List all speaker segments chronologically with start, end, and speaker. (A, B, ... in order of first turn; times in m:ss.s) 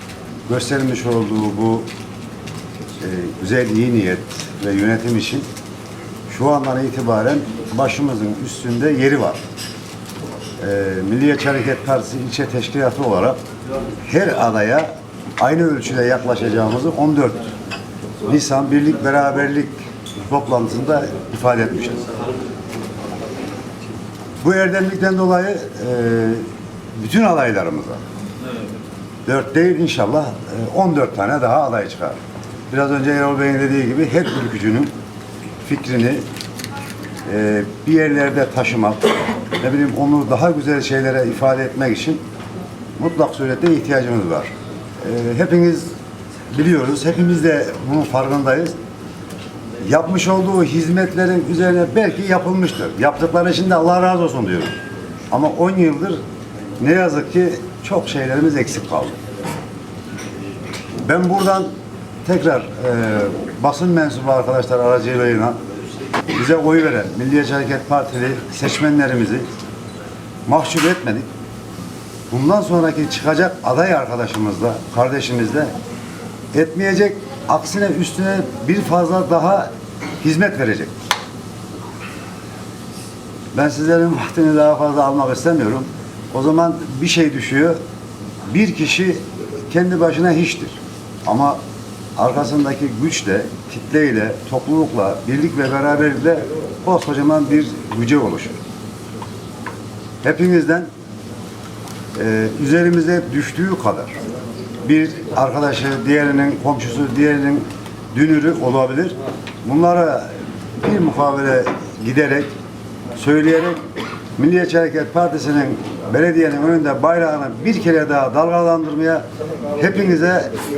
0:00.5-0:01.9 A
0:03.0-0:05.5 A
0:06.3-0:09.4 A
0:10.6-0:13.4 A
0:14.1-0:17.5 A
0:18.2-0:22.0 A
0:24.4-0:28.0 A
0:29.3-0:32.2 A
0:32.7-0:34.9 A
0:35.6-0:36.2 A
0:37.3-0:42.2 A
0:43.0-0:45.9 A
0:46.5-0:48.8 A
0:49.8-0:54.8 A
0:55.3-0:56.2 A
0:56.8-0:59.2 A
1:01.0-1:01.7 A
1:02.2-1:05.6 A
1:06.3-1:09.5 A
1:10.5-1:11.3 A
1:12.3-1:15.7 A
1:16.5-1:19.7 A
1:20.2-1:21.0 A
1:23.5-1:27.8 A
1:28.5-1:31.6 A
1:32.2-1:38.6 A
1:40.2-1:40.9 A
1:42.2-1:44.2 A
1:44.8-1:52.5 A
1:53.2-1:53.8 A
1:54.4-1:59.2 A
1:59.8-2:00.5 A